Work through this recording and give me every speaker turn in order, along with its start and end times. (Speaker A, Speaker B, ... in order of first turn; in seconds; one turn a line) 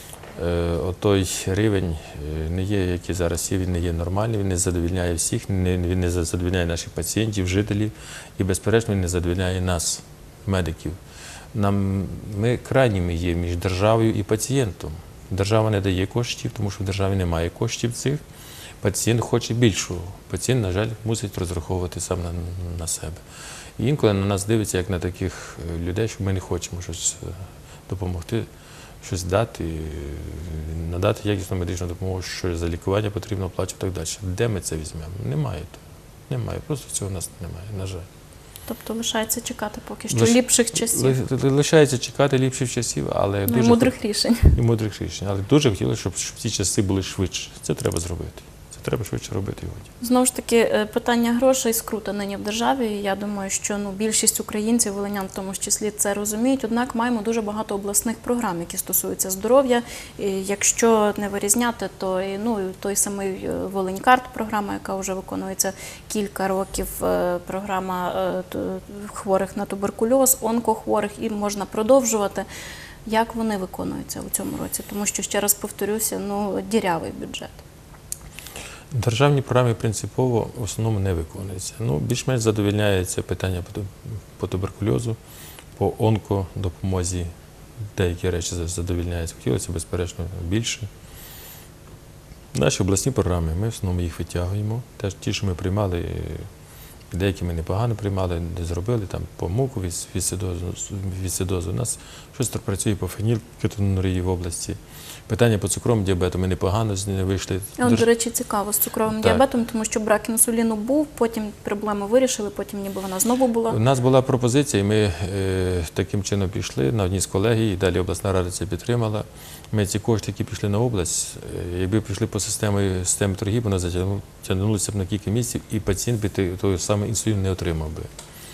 Speaker A: 0.3-11.0
Speaker A: 11.5-18.2
Speaker A: 18.8-23.2
Speaker A: 23.8-28.5
Speaker A: 29.0-38.1
Speaker B: 38.7-41.2
Speaker A: 40.1-44.0
Speaker B: 43.5-44.6
Speaker A: 44.5-49.9
Speaker B: 50.0-72.5
Speaker B: 73.1-77.6
Speaker A: 78.9-85.2
Speaker A: 85.8-87.3
Speaker A: 88.0-90.9
Speaker A: 92.5-96.5
Speaker A: 97.1-108.1
Speaker B: 107.8-113.8
Speaker A: 109.1-109.4
Speaker A: 113.7-128.1